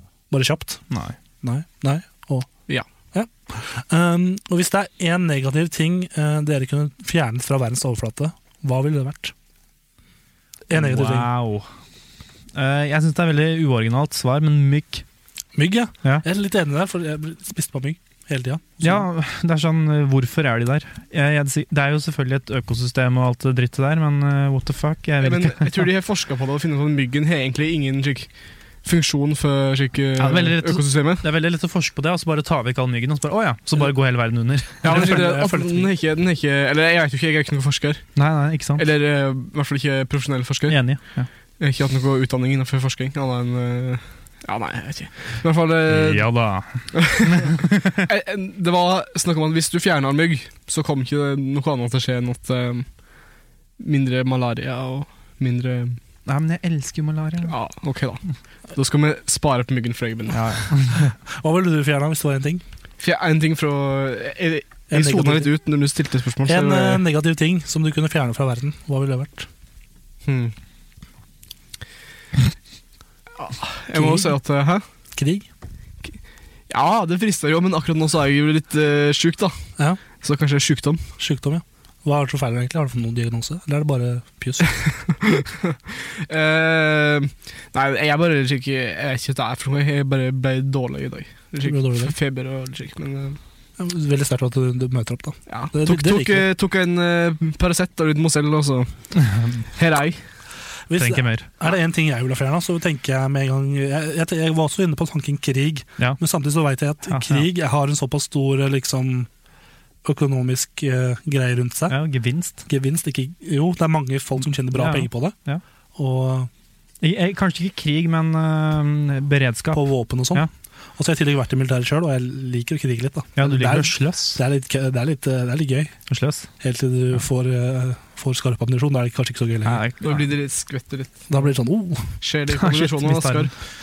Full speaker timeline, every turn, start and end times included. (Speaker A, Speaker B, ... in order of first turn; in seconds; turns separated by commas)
Speaker A: 0.3-0.9, Speaker B: 0.9-1.2, Speaker A: 1.4-2.5, Speaker A: 3.1-9.3, Speaker A: 10.7-11.3, Speaker B: 10.7-11.7, Speaker B: 12.6-15.0, Speaker A: 15.6-19.1, Speaker B: 18.8-25.9, Speaker C: 25.2-31.3, Speaker B: 30.2-35.1, Speaker C: 34.8-38.2, Speaker A: 34.9-35.9, Speaker B: 38.2-38.8, Speaker C: 38.8-46.3, Speaker B: 40.7-41.3, Speaker B: 45.9-48.0, Speaker C: 46.9-52.9, Speaker C: 53.8-56.0, Speaker B: 56.3-57.6, Speaker C: 57.5-60.4, Speaker B: 60.3-61.1, Speaker A: 61.3-62.6, Speaker C: 63.0-67.0, Speaker A: 64.9-65.5, Speaker A: 66.5-69.5, Speaker C: 70.2-70.5, Speaker C: 73.4-74.8, Speaker A: 73.9-74.4, Speaker A: 75.2-75.5, Speaker C: 76.7-79.6, Speaker C: 80.2-81.1, Speaker A: 81.2-84.8, Speaker C: 85.2-93.4, Speaker A: 91.6-92.1, Speaker A: 93.8-96.5, Speaker C: 95.5-98.9, Speaker B: 99.2-99.6, Speaker C: 99.8-100.2, Speaker A: 100.9-109.3, Speaker B: 101.0-101.5, Speaker B: 107.1-107.5, Speaker A: 110.0-112.0, Speaker B: 111.9-112.6, Speaker A: 112.7-115.4, Speaker B: 114.7-115.6, Speaker A: 116.0-116.5, Speaker B: 117.0-120.5, Speaker A: 119.7-120.5, Speaker A: 121.0-126.0, Speaker B: 123.4-124.4, Speaker B: 126.1-126.5, Speaker A: 126.6-129.8, Speaker B: 129.7-130.3, Speaker C: 130.0-131.3, Speaker A: 131.3-132.2, Speaker C: 132.2-133.5, Speaker B: 132.5-133.5